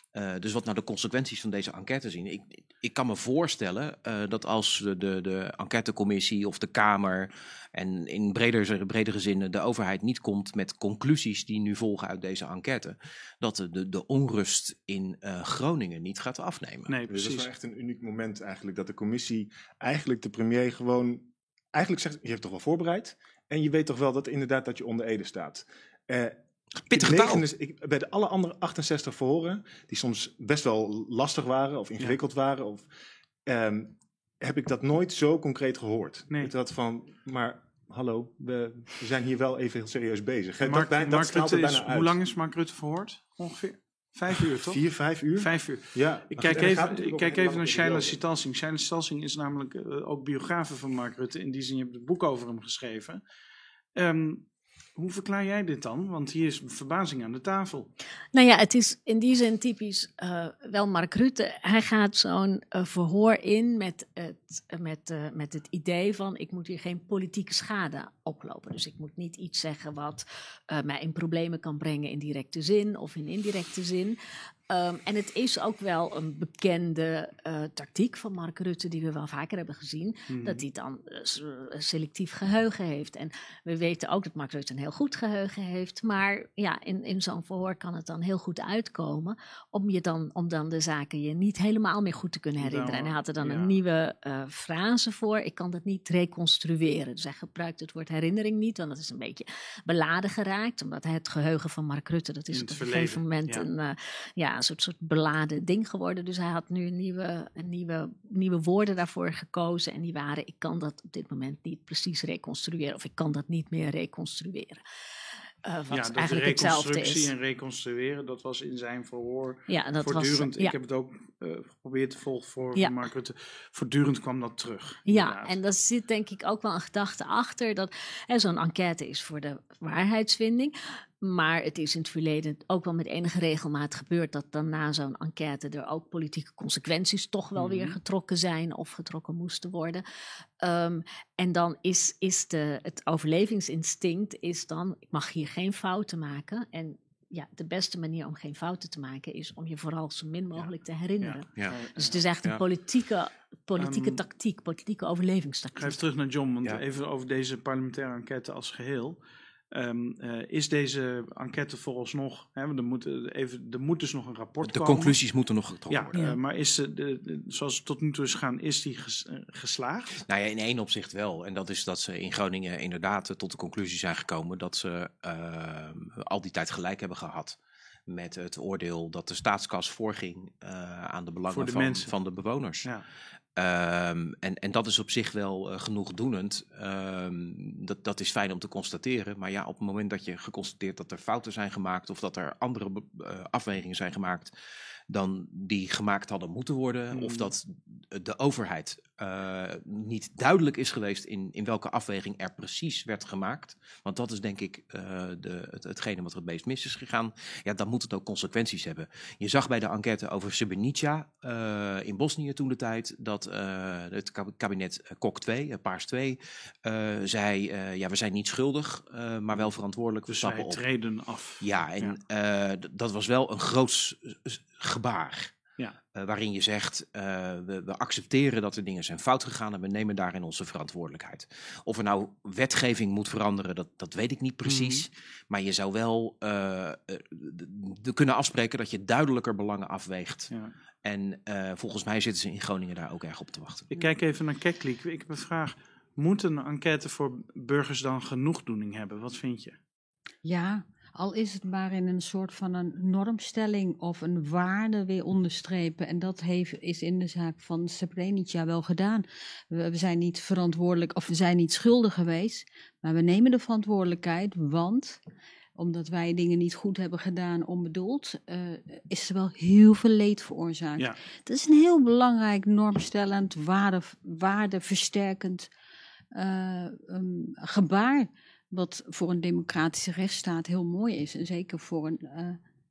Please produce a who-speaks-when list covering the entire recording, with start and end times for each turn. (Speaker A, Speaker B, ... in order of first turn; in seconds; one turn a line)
Speaker A: 0.1-16.9
Speaker B: 16.9-17.5
Speaker C: 17.1-26.4
Speaker A: 26.9-27.4
Speaker C: 26.9-32.9
Speaker C: 33.5-42.2
Speaker B: 40.6-44.8
Speaker C: 44.3-48.2
Speaker B: 45.3-53.2
Speaker B: 53.9-54.4
Speaker B: 55.0-57.9
Speaker D: 58.3-74.2
Speaker D: 74.7-114.8
Speaker B: 80.3-80.6
Speaker B: 92.6-93.8
Speaker B: 102.5-103.7
Speaker D: 115.6-117.3
Speaker B: 115.9-125.5
Speaker D: 119.7-120.7
Speaker D: 125.0-140.0
Speaker B: 137.5-138.0
Speaker D: 140.6-156.0
Speaker B: 150.5-152.2
Speaker B: 153.8-154.2
Speaker B: 155.8-159.2
Speaker B: 159.7-165.2
Speaker A: 164.6-166.2
Speaker B: 165.9-170.2
Speaker A: 170.2-177.6
Speaker A: 178.1-182.9
Speaker B: 181.5-182.1
Speaker A: 183.6-194.5
Speaker A: 195.1-220.8
Speaker B: 197.1-197.5
Speaker B: 220.3-222.2
Speaker A: 221.6-225.5
Speaker A: 226.1-240.5
Speaker B: 234.6-235.1
Speaker A: 241.0-243.9
Speaker B: 243.9-249.8
Speaker E: 250.4-265.2
Speaker E: 265.8-275.7
Speaker E: 276.3-282.6